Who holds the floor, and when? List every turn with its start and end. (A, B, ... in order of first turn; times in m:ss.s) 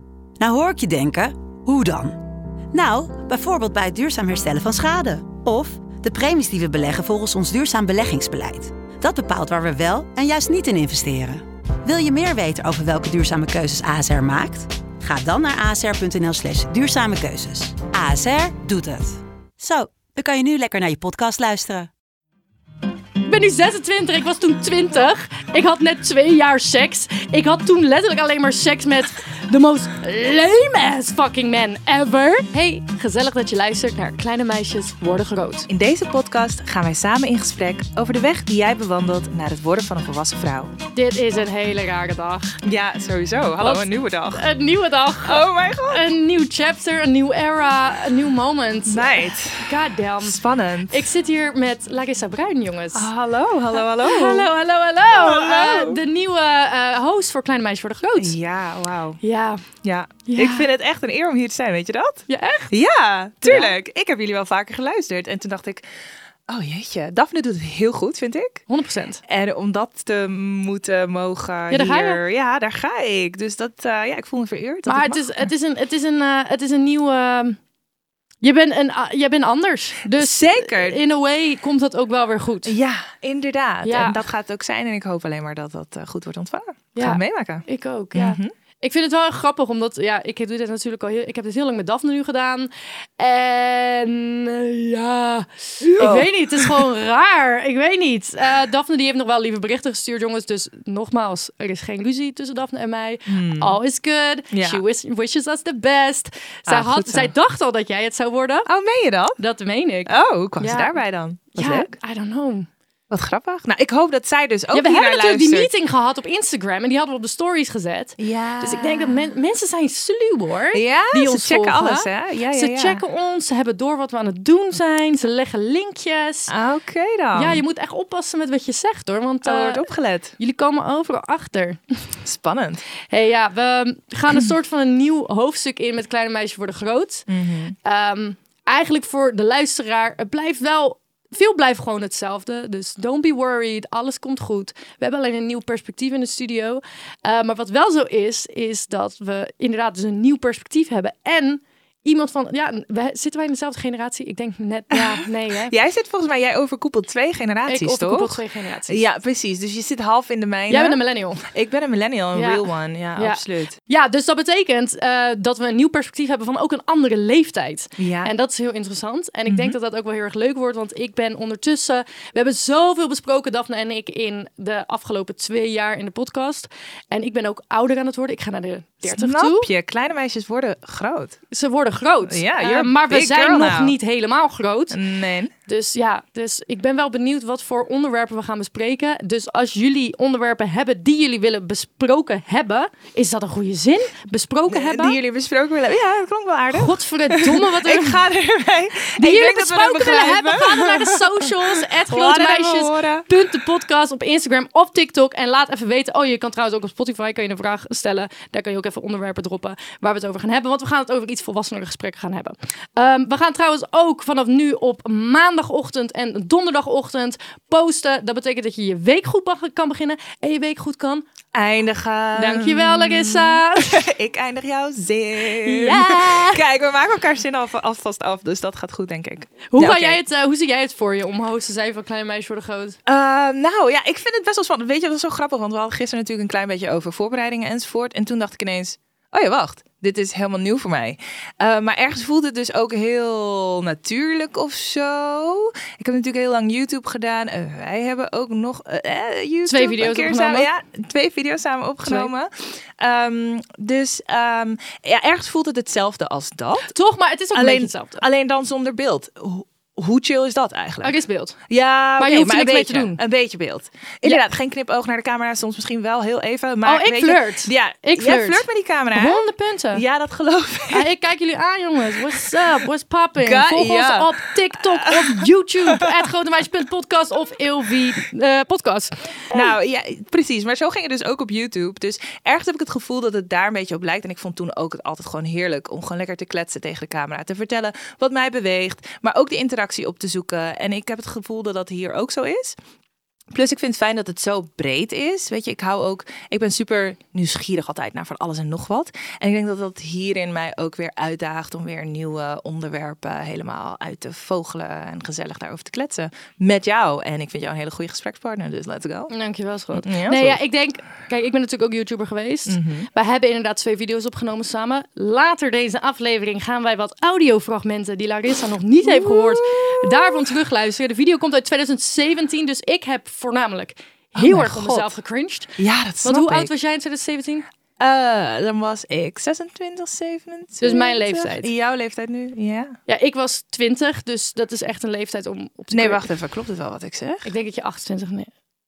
0:00.4-0:21.9 A
0:23.2-0:35.7 B
0:35.7-0:40.7 C
0:40.9-0:42.6 B
0:42.6-0:44.5 C
0:43.6-0:50.4 B
0:45.2-0:46.1 C
0:48.8-0:51.0 C
0:50.9-0:53.1 B
0:52.9-0:54.5 C
0:53.9-0:58.4 B
0:55.1-0:56.0 C
0:58.2-0:59.2 C
0:59.2-0:59.6 B
0:59.8-1:05.8 C
1:00.2-1:00.7 B
1:02.3-1:02.7 B
1:03.4-1:03.7 B
1:06.5-1:08.6 C
1:08.7-1:09.2 B
1:09.3-1:15.4 C
1:11.7-1:12.2 B
1:14.9-1:17.6 B
1:18.4-1:22.8 B
1:20.2-1:21.0 C
1:22.6-1:28.5 C
1:23.8-1:24.2 B
1:26.9-1:48.7 B
1:35.8-1:36.8 C
1:43.3-1:43.8 C
1:44.5-1:44.8 C
1:46.7-1:47.3 C
1:48.7-1:49.4 C
1:49.4-1:51.0 B
1:50.0-1:51.9 C
1:51.5-1:52.7 B
1:53.1-1:55.7 C
1:54.7-2:06.5 B
1:58.2-1:59.2 C
2:00.7-2:03.0 C
2:06.5-2:07.6 C
2:07.3-2:11.8 B
2:09.4-2:10.4 C
2:12.2-2:12.8 C
2:13.1-2:17.2 B
2:17.3-2:17.7 C
2:17.8-2:35.7 B
2:34.9-2:43.8 C
2:37.7-2:39.0 B
2:40.7-2:41.4 B
2:42.3-2:59.7 B
2:48.0-2:48.3 C
2:49.5-2:49.8 C
2:59.0-3:01.4 C
3:01.5-3:05.0 B
3:02.3-3:04.0 C
3:04.9-3:05.5 C
3:05.7-3:15.2 B
3:14.7-3:23.3 C
3:16.7-3:18.2 B
3:19.2-3:41.2 B
3:41.5-3:50.2 C
3:42.3-3:44.0 B
3:45.6-3:46.6 B
3:49.7-3:53.0 B
3:53.0-4:16.9 C
4:09.6-4:10.7 B
4:12.0-4:12.3 B
4:16.9-4:18.2 B
4:17.5-4:29.4 C
4:21.0-4:21.6 B
4:22.2-4:23.2 B
4:26.8-4:30.0 B
4:29.9-4:31.1 C
4:30.9-4:39.6 B
4:32.1-4:32.6 C
4:33.4-4:36.2 C
4:39.5-4:52.8 C
4:53.5-5:09.3 C
5:09.3-5:27.6 B
5:09.9-5:10.6 C
5:12.7-5:13.1 C
5:19.0-5:20.4 C
5:24.4-5:25.1 C
5:25.8-5:26.7 C
5:28.0-5:33.0 C
5:30.8-5:31.7 B
5:33.1-5:36.2 B
5:35.9-5:37.4 C
5:37.4-5:38.5 B